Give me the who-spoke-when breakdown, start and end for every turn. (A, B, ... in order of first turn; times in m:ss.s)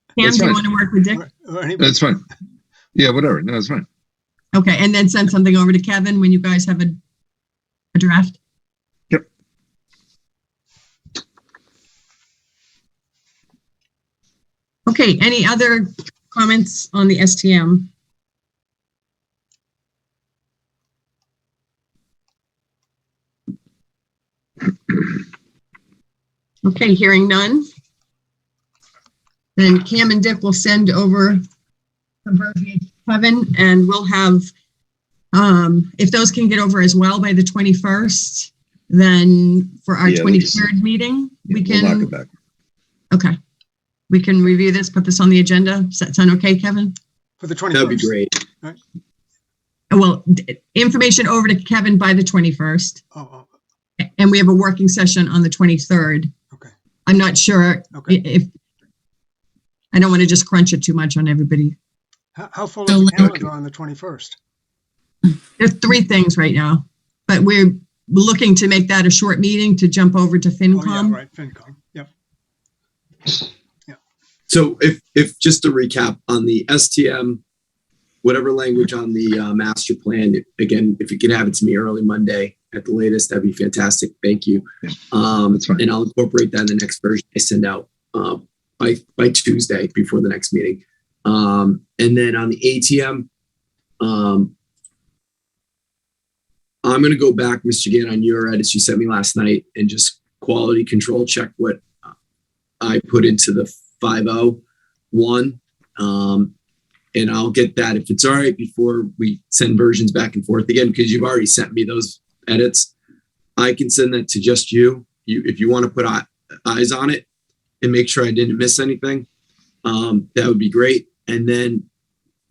0:00.2-0:01.2 A
0:00.2-0:00.6 B
0:01.2-0:02.0 C
0:01.8-0:02.2 B
0:02.9-0:03.8 B
0:04.5-0:07.0 A
0:07.9-0:08.4 A
0:14.9-0:17.9 A
0:26.6-0:27.6 A
0:29.6-0:31.4 A
0:32.2-0:34.5 A
0:35.3-0:42.1 A
0:40.0-0:40.7 B
0:41.5-0:42.3 B
0:43.1-0:43.4 A
0:44.1-0:47.0 A
0:47.4-0:48.8 C
0:47.7-0:48.4 D
0:49.9-0:53.0 A
0:53.1-0:53.5 C
0:54.2-0:56.3 A
0:57.0-0:58.5 A
0:57.9-0:58.2 C
0:59.9-1:01.8 A
1:02.4-1:04.4 C
1:02.9-1:03.3 A
1:05.6-1:11.2 A
1:10.7-1:12.1 C
1:14.5-1:17.4 D
1:18.2-1:33.3 D
1:25.5-1:25.8 B
1:34.0-1:34.5 D
1:36.8-1:42.0 D
1:42.8-1:44.6 D
1:45.1-1:46.5 D
1:47.1-1:52.9 D
1:53.6-1:57.2 D
1:57.8-1:59.3 D
1:59.8-2:01.8 D